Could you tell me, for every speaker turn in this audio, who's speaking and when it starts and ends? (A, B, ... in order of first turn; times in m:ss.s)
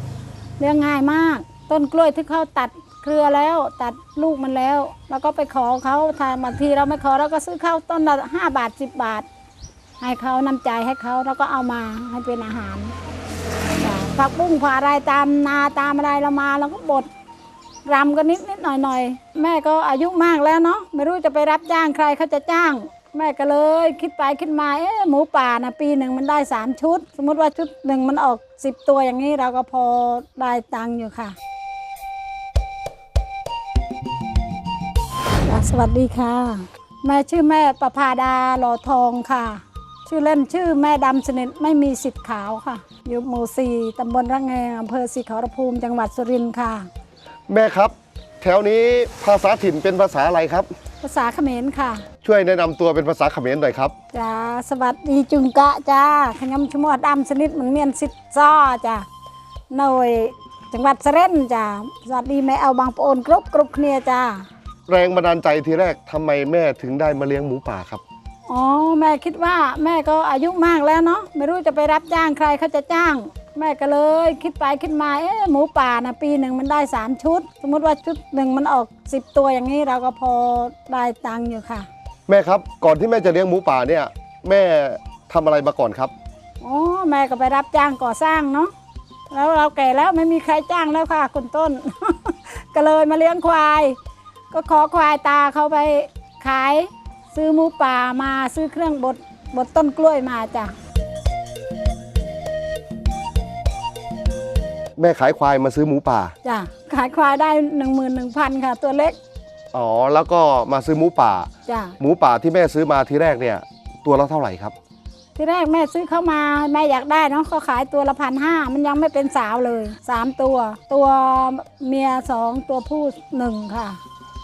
0:00.6-0:09.3 A
0:10.0-0:12.9 A
0:13.8-0:17.1 A
0:17.9-0:31.4 A
0:35.4-0:46.9 A
0:47.5-0:50.7 B
0:51.0-0:52.0 A
0:52.2-0:53.9 B
0:54.1-0:59.1 A
0:59.7-1:04.5 A
1:04.9-1:08.0 B
1:08.5-1:21.9 A
1:22.3-1:26.1 B
1:26.6-1:28.7 A
1:29.3-1:34.0 A
1:34.5-1:40.8 A
1:45.0-1:46.3 B
1:46.4-1:49.2 A
1:49.7-1:54.8 B
1:51.7-1:52.0 A
1:55.4-2:04.0 A